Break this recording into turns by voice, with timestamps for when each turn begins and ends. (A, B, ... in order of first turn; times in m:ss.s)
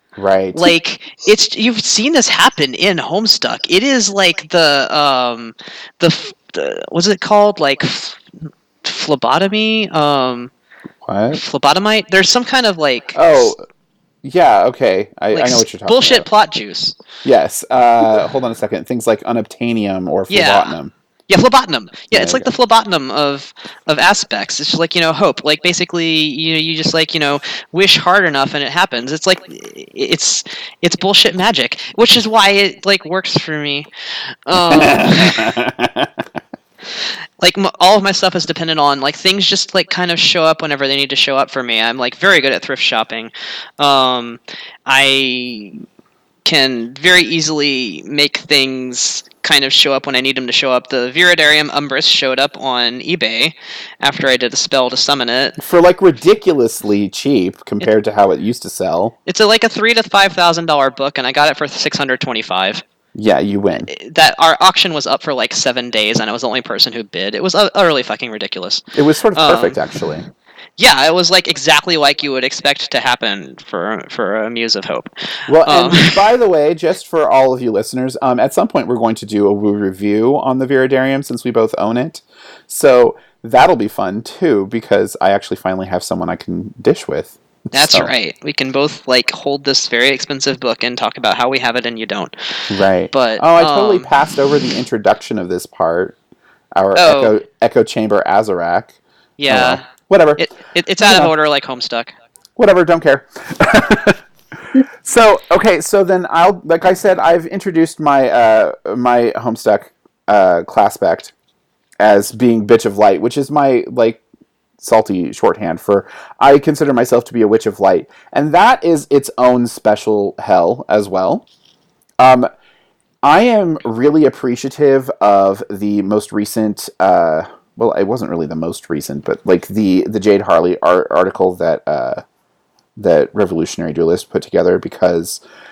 0:00.2-0:00.7 A
0:00.6-0:08.2 B
0:08.8-0:10.5 B
0:11.0-0:11.4 A
0:11.3-0:13.5 B
0:13.2-0:13.6 A
0:14.2-0:16.3 A
0:15.3-0:17.0 B
0:17.2-0:20.9 A
0:20.3-0:20.7 B
0:21.3-0:33.9 B
0:22.1-0:22.5 A
0:34.5-0:35.5 B
0:34.7-0:36.2 A
0:37.4-0:45.8 B
0:46.4-0:55.6 B
0:55.6-0:59.2 A
0:59.3-1:02.8 B
1:03.2-1:03.9 A
1:03.9-1:10.0 B
1:08.9-1:10.2 A
1:10.8-1:15.1 B
1:15.5-1:28.1 A
1:15.7-1:16.2 B
1:27.7-1:34.1 B
1:32.7-1:36.2 A
1:36.8-1:39.0 A
1:37.0-1:37.4 B
1:39.4-1:42.1 B
1:39.5-1:40.4 A
1:41.0-1:41.3 A
1:42.6-1:44.2 A
1:44.8-1:51.3 A
1:52.0-1:54.2 A
1:54.8-2:01.4 A
2:02.2-2:02.5 A
2:03.2-2:12.2 A
2:13.0-2:15.4 A